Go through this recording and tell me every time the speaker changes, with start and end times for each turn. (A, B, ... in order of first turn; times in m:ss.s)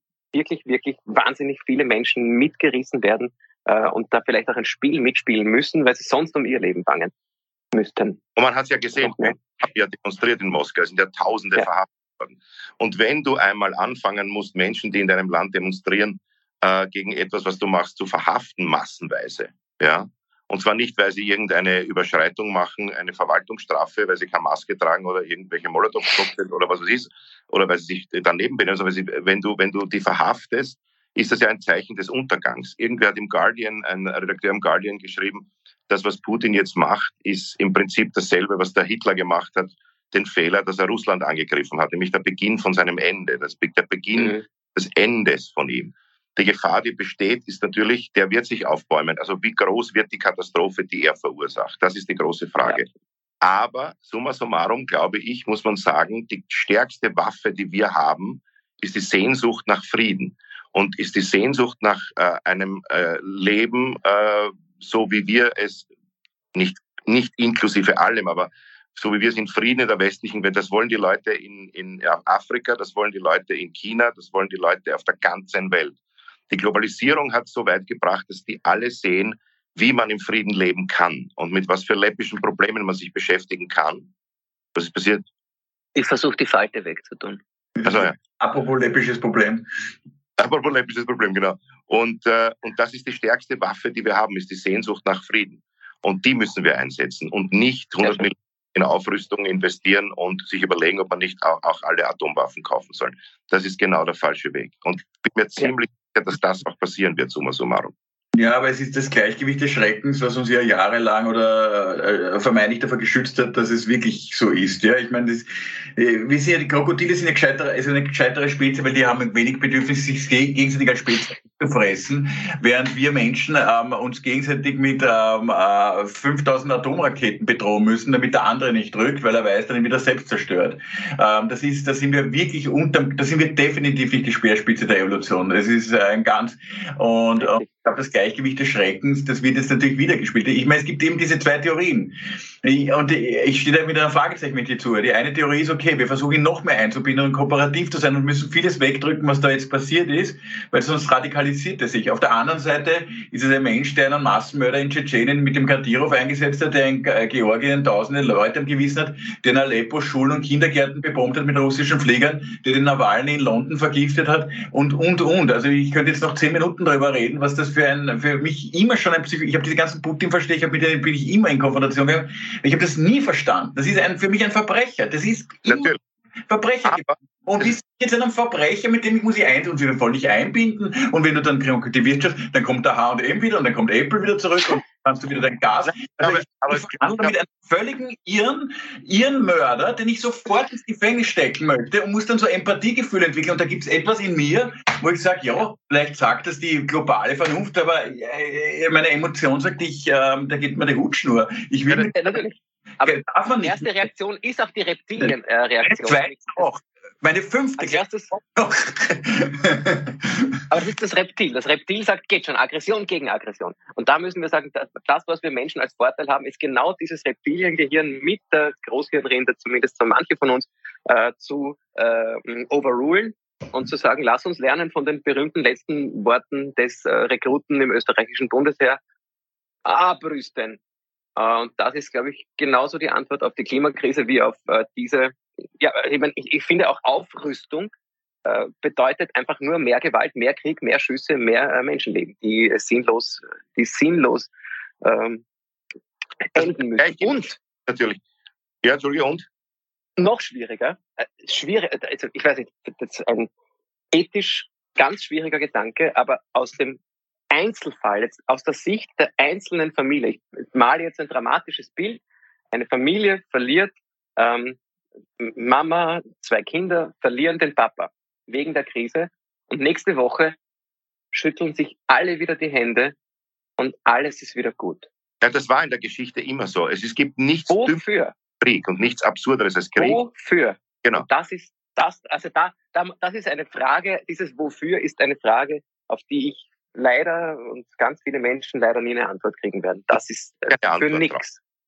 0:00.3-0:07.1 A
0:07.7-0:08.2 A
0:08.4-0:52.9 B
0:09.0-0:09.3 A
0:44.2-0:44.4 A
0:53.4-1:05.9 B
1:06.6-1:16.0 B
1:16.5-1:24.1 B
1:24.7-1:25.2 B
1:25.9-1:27.4 A
1:27.8-1:29.7 C
1:27.8-1:28.1 B
1:30.4-1:47.9 B
1:48.4-2:55.9 C
2:17.4-2:17.6 A
2:55.6-2:56.0 B
2:56.5-3:22.3 C
2:56.9-2:57.2 B
3:05.9-3:07.3 B
3:21.9-3:26.7 A
3:23.0-3:23.9 C
3:25.9-3:30.6 C
3:27.8-3:28.4 A
3:30.7-3:49.0 A
3:49.8-3:50.8 A
3:51.4-3:57.9 A
3:58.4-4:04.5 A
4:05.0-4:05.4 A
4:06.5-4:07.6 A
4:06.6-4:08.2 B
4:08.8-4:09.5 B
4:10.2-4:13.5 A
4:14.1-4:17.0 A
4:17.5-4:22.2 A
4:22.7-4:24.8 A
4:25.4-4:30.6 A
4:31.3-4:33.1 A
4:33.8-4:35.1 A
4:35.4-4:38.0 B
4:37.7-4:38.3 A
4:38.6-4:40.2 B
4:40.0-4:51.6 A
4:50.7-4:51.4 B